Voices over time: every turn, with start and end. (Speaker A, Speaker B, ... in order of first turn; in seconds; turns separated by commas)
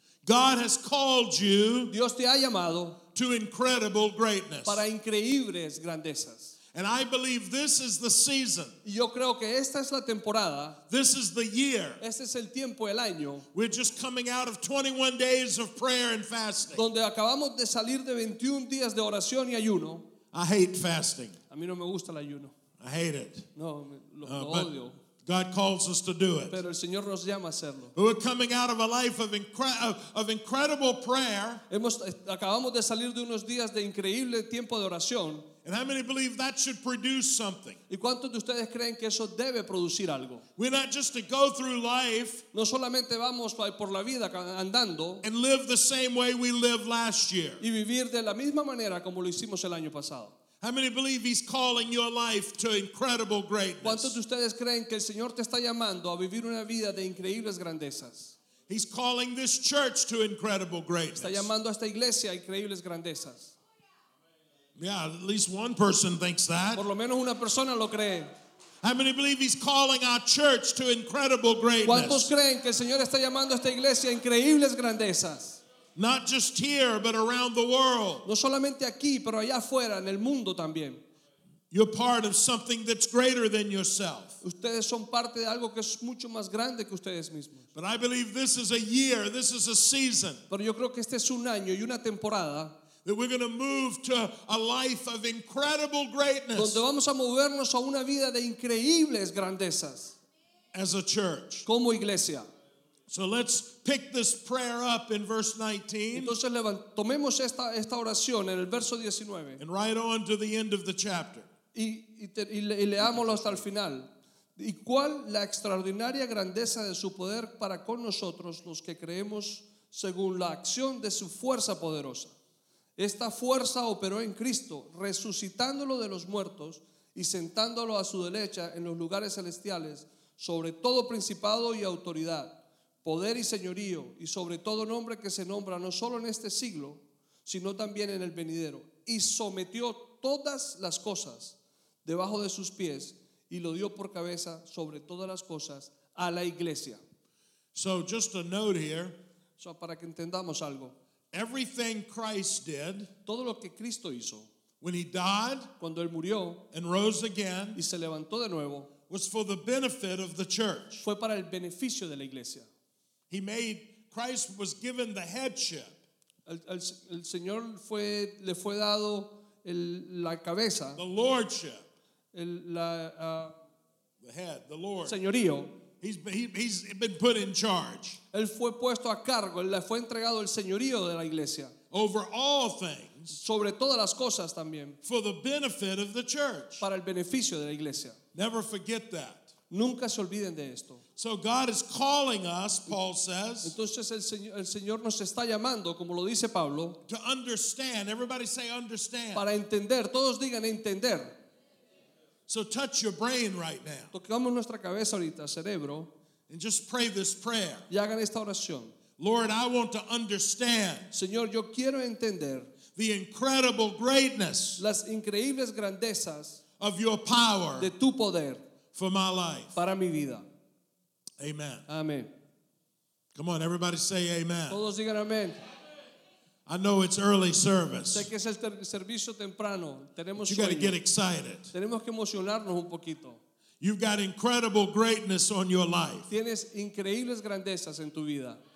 Speaker A: 0.2-1.9, Speaker B: 1.9-3.0, Speaker A: 3.1-4.8, Speaker B: 4.7-6.5, Speaker A: 6.7-8.8, Speaker B: 8.8-10.8, Speaker A: 10.9-12.0, Speaker B: 12.0-13.5, Speaker A: 13.5-16.8, Speaker B: 16.7-20.0, Speaker A: 20.3-21.4, Speaker B: 21.5-22.5, Speaker A: 22.8-23.5, Speaker B: 23.5-25.0, Speaker A: 24.2-24.7, Speaker A: 25.2-26.6, Speaker B: 26.5-27.9, Speaker A: 27.9-31.6, Speaker B: 31.7-35.5, Speaker A: 35.6-37.8, Speaker B: 37.9-40.4, Speaker A: 40.6-42.4, Speaker B: 42.5-45.2, Speaker A: 45.2-47.6, Speaker B: 47.6-50.3, Speaker A: 50.6-54.1, Speaker B: 53.8-58.3, Speaker A: 58.7-61.5, Speaker B: 61.2-63.5, Speaker A: 64.8-66.8, Speaker B: 66.7-68.3, Speaker A: 68.8-72.3, Speaker B: 71.8-75.6, Speaker A: 76.0-78.2, Speaker B: 78.2-81.0, Speaker A: 81.7-84.4, Speaker B: 84.4-87.7, Speaker A: 87.7-90.4, Speaker B: 90.5-92.7, Speaker A: 93.0-96.8, Speaker B: 96.5-100.2, Speaker A: 100.7-101.7, Speaker B: 101.6-102.5, Speaker A: 103.1-106.3, Speaker B: 106.1-109.6, Speaker A: 109.6-111.5, Speaker B: 111.7-122.3, Speaker A: 113.0-113.6, Speaker B: 123.0-147.0, Speaker A: 147.7-149.2, Speaker B: 149.6-150.9, Speaker A: 151.3-153.1, Speaker B: 153.2-154.5, Speaker A: 154.8-155.7, Speaker B: 155.8-156.6, Speaker A: 156.7-157.8, Speaker B: 157.7-158.9, Speaker A: 159.1-161.0, Speaker B: 161.0-162.7, Speaker A: 163.3-166.0, Speaker B: 166.4-171.0, Speaker A: 170.9-171.8, Speaker B: 172.3-173.5, Speaker A: 174.2-175.2, Speaker B: 175.0-175.7, Speaker A: 176.0-178.2, Speaker B: 178.3-181.7, Speaker A: 181.9-183.4, Speaker B: 183.3-185.0, Speaker A: 185.0-186.8, Speaker B: 186.8-188.2, Speaker A: 188.3-189.5, Speaker B: 189.7-191.0, Speaker A: 191.2-193.7, Speaker B: 193.6-197.0, Speaker A: 197.1-199.4, Speaker B: 199.3-201.3, Speaker A: 202.5-204.1, Speaker B: 204.1-206.1, Speaker A: 206.5-207.8, Speaker B: 207.9-208.9, Speaker A: 209.2-211.1, Speaker B: 211.1-212.7, Speaker A: 212.9-214.8, Speaker B: 214.8-216.6, Speaker A: 216.8-217.9, Speaker B: 217.8-218.6, Speaker A: 218.9-219.7, Speaker B: 219.7-220.4, Speaker A: 221.4-221.8, Speaker B: 221.9-222.3, Speaker A: 223.3-224.8, Speaker B: 224.7-225.6, Speaker A: 226.7-228.3, Speaker B: 228.1-231.0, Speaker A: 230.4-231.7, Speaker B: 231.7-233.4, Speaker A: 233.8-236.3, Speaker B: 236.3-238.6